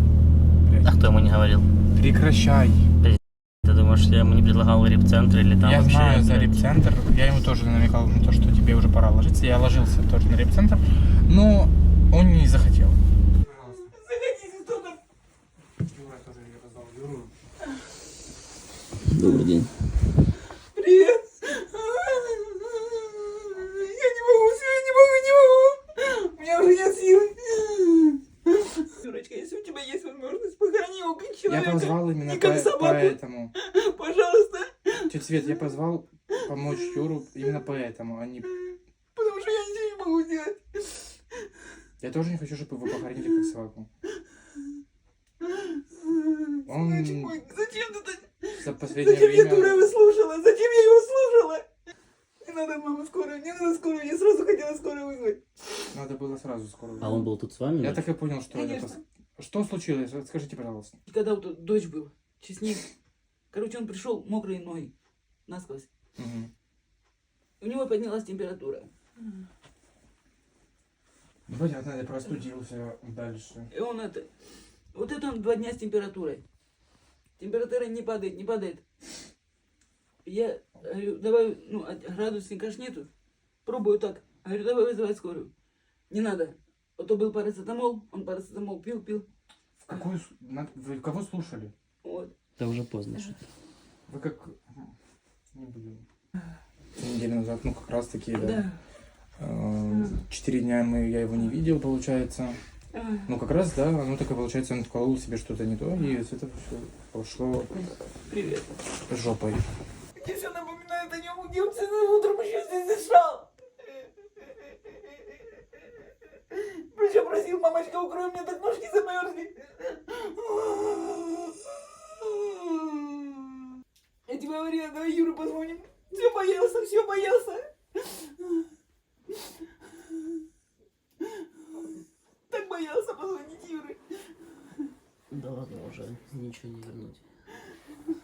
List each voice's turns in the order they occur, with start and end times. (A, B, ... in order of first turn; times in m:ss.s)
0:00.6-0:01.0 A
0:00.8-0:01.7 B
0:01.9-0:02.9 A
0:03.0-0:06.7 B
0:05.6-0:13.9 A
0:13.7-0:15.0 C
0:15.8-0:17.3 A
0:19.1-0:19.8 B
0:20.8-0:35.1 C
0:31.5-0:33.5 A
0:35.0-0:38.5 A
0:36.4-0:37.0 C
0:38.5-0:41.1 C
0:42.0-0:43.9 A
0:45.4-0:51.7 C
0:46.7-0:47.4 A
0:48.6-0:49.9 A
0:52.4-0:55.4 C
0:55.9-0:57.3 A
0:57.0-0:58.1 B
0:57.8-1:01.0 A
0:58.5-0:59.0 C
1:01.1-1:02.9 C
1:03.5-1:04.9 C
1:05.5-1:05.9 C
1:06.2-1:06.5 A
1:07.6-1:09.2 C
1:11.5-1:13.7 A
1:13.7-1:16.4 C
1:17.4-1:18.8 C
1:20.2-1:23.1 C
1:23.7-1:25.5 C
1:26.1-1:29.3 C
1:29.8-1:31.7 A
1:32.0-1:32.3 C
1:32.6-1:33.4 B
1:34.1-1:34.9 A
1:35.5-1:36.0 A
1:37.0-1:38.6 A
1:38.4-1:38.8 C
1:39.4-1:42.6 A
1:39.9-1:40.2 C
1:42.9-1:43.3 C
1:43.3-1:47.7 A
1:48.3-1:48.8 C
1:49.1-1:49.6 A
1:50.2-1:55.8 C
1:56.5-2:08.6 C
2:11.2-2:11.5 C
2:12.5-2:14.0 C
2:15.3-2:17.2 B